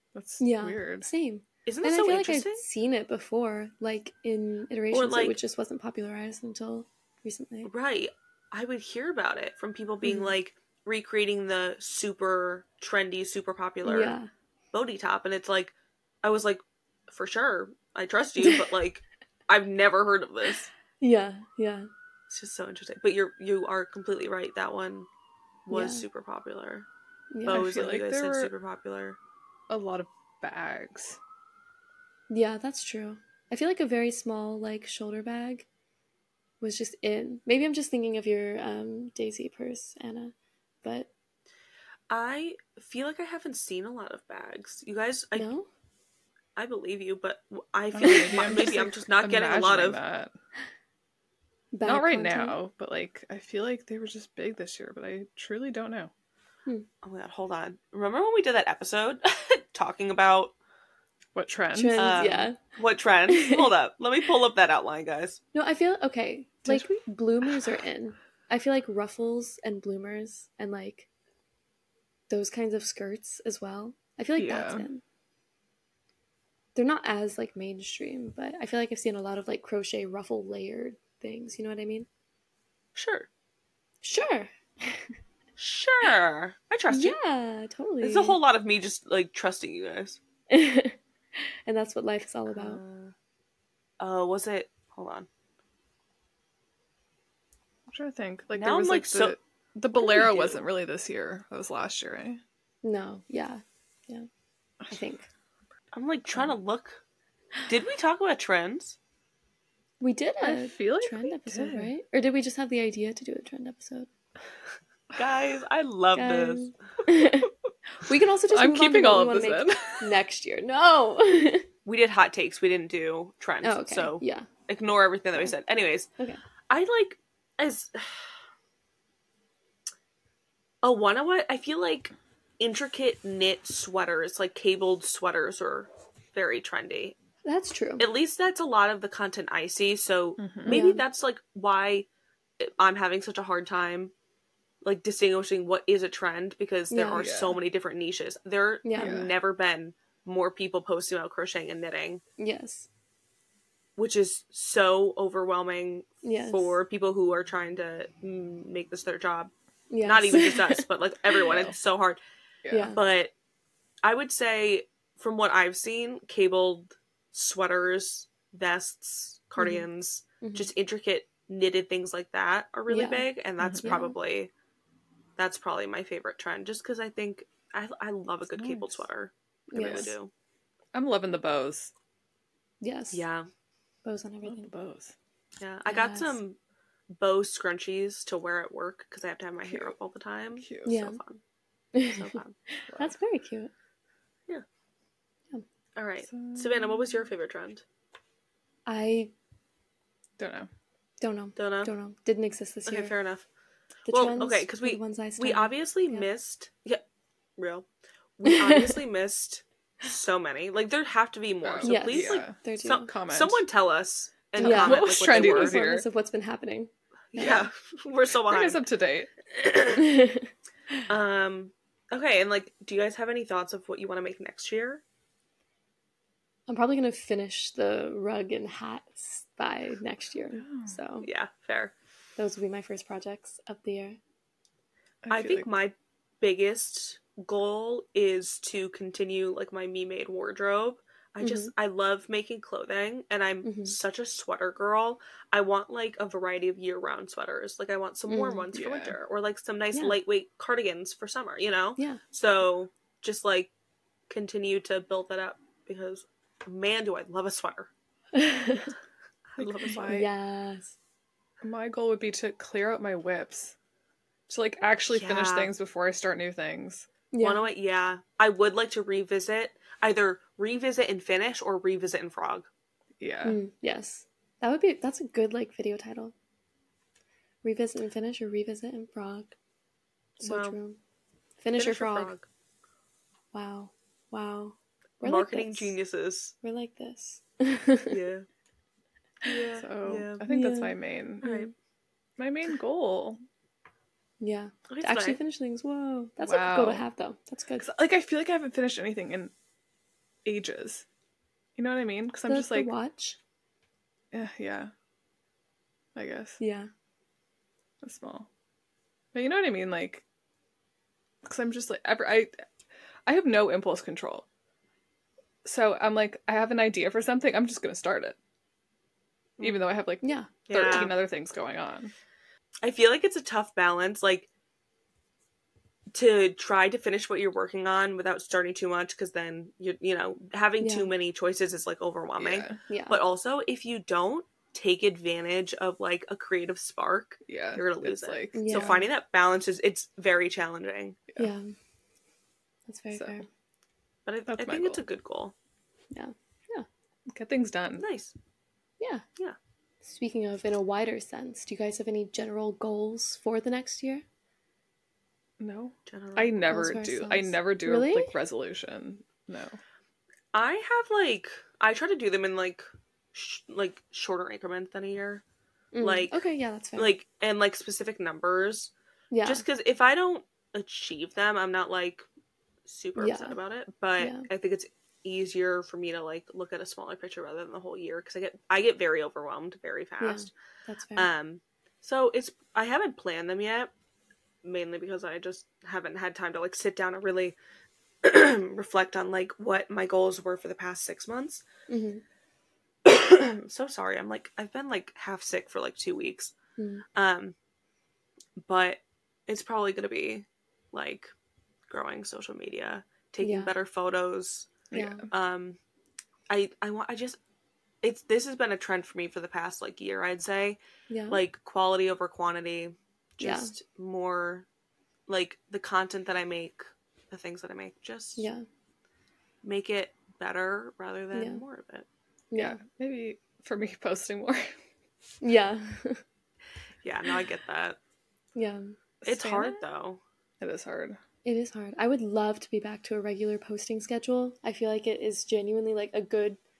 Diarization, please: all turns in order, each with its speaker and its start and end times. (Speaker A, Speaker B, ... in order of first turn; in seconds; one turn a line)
Speaker A: 0.1-1.1
Speaker B: 0.4-7.7
Speaker C: 1.6-2.6
Speaker C: 4.9-5.4
Speaker C: 7.6-14.2
Speaker B: 10.0-10.3
Speaker B: 13.8-14.3
Speaker C: 14.7-20.7
Speaker B: 18.4-18.7
Speaker B: 21.0-21.9
Speaker C: 22.3-25.1
Speaker C: 25.7-26.9
Speaker B: 25.7-26.0
Speaker B: 27.3-27.7
Speaker C: 27.4-29.2
Speaker A: 27.5-28.5
Speaker A: 29.7-31.2
Speaker B: 32.3-35.6
Speaker B: 36.6-41.1
Speaker C: 42.1-45.5
Speaker B: 45.3-45.7
Speaker C: 46.5-50.0
Speaker A: 47.9-50.3
Speaker B: 51.7-52.6
Speaker A: 51.8-56.1
Speaker C: 57.0-60.5
Speaker A: 61.3-62.2
Speaker B: 61.7-62.6
Speaker C: 62.0-65.4
Speaker B: 63.3-63.7
Speaker B: 65.5-71.1
Speaker B: 72.3-75.0
Speaker A: 74.4-74.9
Speaker B: 76.7-82.1
Speaker C: 82.9-83.3
Speaker B: 84.0-85.1
Speaker C: 85.6-87.2
Speaker B: 86.9-88.4
Speaker C: 88.0-90.2
Speaker B: 90.5-92.8
Speaker C: 92.5-93.1
Speaker C: 94.0-95.3
Speaker A: 97.9-102.4
Speaker C: 98.5-99.3
Speaker B: 100.0-100.5
Speaker C: 100.2-100.5
Speaker B: 102.8-104.3
Speaker B: 104.9-105.3
Speaker C: 105.9-107.0
Speaker C: 107.7-109.0
Speaker B: 110.0-114.1
Speaker A: 110.4-111.9
Speaker C: 115.1-116.7
Speaker B: 116.1-121.7
Speaker A: 118.5-120.1
Speaker C: 121.8-126.1
Speaker B: 123.6-124.5
Speaker C: 126.7-128.3
Speaker C: 130.8-137.1
Speaker B: 137.4-138.1
Speaker C: 138.0-142.1
Speaker A: 140.4-140.8
Speaker B: 140.7-141.0
Speaker C: 142.6-144.1
Speaker C: 144.8-152.2
Speaker B: 146.9-147.3
Speaker A: 147.1-147.6
Speaker B: 148.8-149.2
Speaker A: 149.0-149.3
Speaker B: 152.4-152.9
Speaker C: 154.0-159.5
Speaker B: 156.2-156.8
Speaker B: 159.9-161.4
Speaker C: 160.0-162.2
Speaker A: 161.4-161.7
Speaker A: 162.6-162.9
Speaker B: 162.7-163.0
Speaker C: 162.9-163.3
Speaker C: 164.0-174.5
Speaker B: 169.6-169.8
Speaker B: 170.4-170.7
Speaker B: 172.9-173.2
Speaker A: 173.6-173.9
Speaker B: 173.8-174.2
Speaker C: 175.4-180.3
Speaker A: 178.5-179.1
Speaker B: 179.7-180.1
Speaker A: 179.8-180.1
Speaker A: 180.9-181.9
Speaker B: 182.8-183.2
Speaker C: 183.1-183.5
Speaker B: 184.0-184.7
Speaker A: 184.4-185.1
Speaker C: 185.6-186.6
Speaker B: 185.8-186.4
Speaker C: 187.2-191.4
Speaker A: 189.7-189.9
Speaker A: 190.6-191.0
Speaker B: 190.8-191.2
Speaker B: 191.9-193.7
Speaker C: 192.1-192.6
Speaker A: 192.9-193.1
Speaker C: 195.9-197.8
Speaker A: 196.3-197.2
Speaker B: 198.8-199.3
Speaker A: 200.4-200.7
Speaker B: 201.2-203.1
Speaker C: 201.6-201.9
Speaker C: 202.9-203.4
Speaker B: 204.1-206.3
Speaker C: 204.1-207.0
Speaker C: 207.6-207.8
Speaker C: 208.4-215.8
Speaker B: 208.4-209.0
Speaker A: 211.6-213.6
Speaker B: 211.8-213.1
Speaker A: 214.6-216.1
Speaker B: 214.6-217.7
Speaker C: 217.3-218.8
Speaker A: 218.5-219.3
Speaker C: 219.5-220.0
Speaker B: 219.9-221.0
Speaker C: 221.1-225.0
Speaker B: 226.7-231.3
Speaker A: 230.5-230.9
Speaker C: 231.2-231.9
Speaker B: 232.4-234.2
Speaker A: 235.2-235.7
Speaker C: 235.3-253.7
Speaker B: 241.4-241.7
Speaker B: 243.6-243.9
Speaker B: 248.3-248.6
Speaker A: 248.7-249.2
Speaker C: 254.3-257.9
Speaker B: 258.3-258.9
Speaker C: 259.5-260.1
Speaker A: 259.6-260.3
Speaker B: 260.0-260.9
Speaker A: 261.6-263.7
Speaker A: 264.5-267.1
Speaker C: 265.1-265.7
Speaker B: 267.3-267.7
Speaker C: 267.4-272.7
Speaker A: 273.2-273.6
Speaker B: 273.4-276.3
Speaker B: 277.6-279.5
Speaker C: 280.4-280.8
Speaker B: 280.4-281.0
Speaker B: 281.6-282.3
Speaker C: 281.8-282.5
Speaker B: 283.5-285.9
Speaker C: 285.2-286.5
Speaker B: 286.6-288.2
Speaker C: 288.1-288.4
Speaker C: 289.4-290.4
Speaker A: 289.8-291.5
Speaker B: 290.5-291.7
Speaker A: 292.4-293.4
Speaker B: 294.4-297.9
Speaker C: 294.9-295.4
Speaker A: 296.4-297.1
Speaker A: 297.8-299.5
Speaker A: 300.4-301.0
Speaker A: 301.8-302.9
Speaker B: 302.4-303.4
Speaker A: 304.3-304.9
Speaker A: 306.1-306.6
Speaker B: 306.6-306.9
Speaker A: 308.0-308.5
Speaker A: 309.3-310.2
Speaker A: 311.4-312.5
Speaker A: 313.2-314.4
Speaker A: 315.6-318.4
Speaker C: 319.6-319.9
Speaker A: 319.6-322.1
Speaker B: 320.2-321.0
Speaker C: 320.7-321.1
Speaker C: 322.8-324.5
Speaker C: 326.1-341.2
Speaker B: 330.8-331.1
Speaker A: 332.4-332.8
Speaker B: 332.9-333.2
Speaker A: 337.5-339.0
Speaker B: 338.5-339.0
Speaker B: 341.4-341.7
Speaker B: 342.9-343.4
Speaker A: 343.1-343.4
Speaker C: 344.2-345.5
Speaker A: 344.5-345.0
Speaker B: 346.1-346.9
Speaker A: 347.3-348.1
Speaker C: 348.0-348.3
Speaker B: 350.0-354.2
Speaker A: 355.6-359.8
Speaker C: 356.1-356.7
Speaker B: 356.6-358.3
Speaker C: 360.5-365.4
Speaker B: 365.9-367.1
Speaker C: 366.0-366.4
Speaker C: 366.9-368.9
Speaker B: 369.3-369.6
Speaker C: 369.4-372.2
Speaker C: 372.9-380.5
Speaker B: 373.2-373.6
Speaker B: 374.2-374.4
Speaker B: 380.2-381.3
Speaker C: 381.1-383.9
Speaker C: 384.6-387.6
Speaker C: 388.2-391.6
Speaker B: 391.9-392.2
Speaker C: 393.0-396.5
Speaker B: 396.8-397.0
Speaker C: 397.1-397.5
Speaker C: 398.6-401.3
Speaker C: 401.9-405.8
Speaker B: 403.4-403.7
Speaker A: 404.9-405.2
Speaker B: 404.9-405.2
Speaker C: 406.5-407.4
Speaker C: 408.0-410.8
Speaker B: 411.1-411.4
Speaker C: 411.3-414.6
Speaker B: 413.4-413.7
Speaker C: 415.3-418.5
Speaker B: 418.4-418.6
Speaker C: 419.6-422.1
Speaker B: 421.3-421.6
Speaker B: 422.5-422.8
Speaker A: 422.5-424.8
Speaker B: 425.4-426.2
Speaker C: 427.0-428.0
Speaker B: 428.6-429.0
Speaker A: 429.2-429.8
Speaker C: 429.2-430.2
Speaker A: 430.6-431.2
Speaker B: 431.4-436.6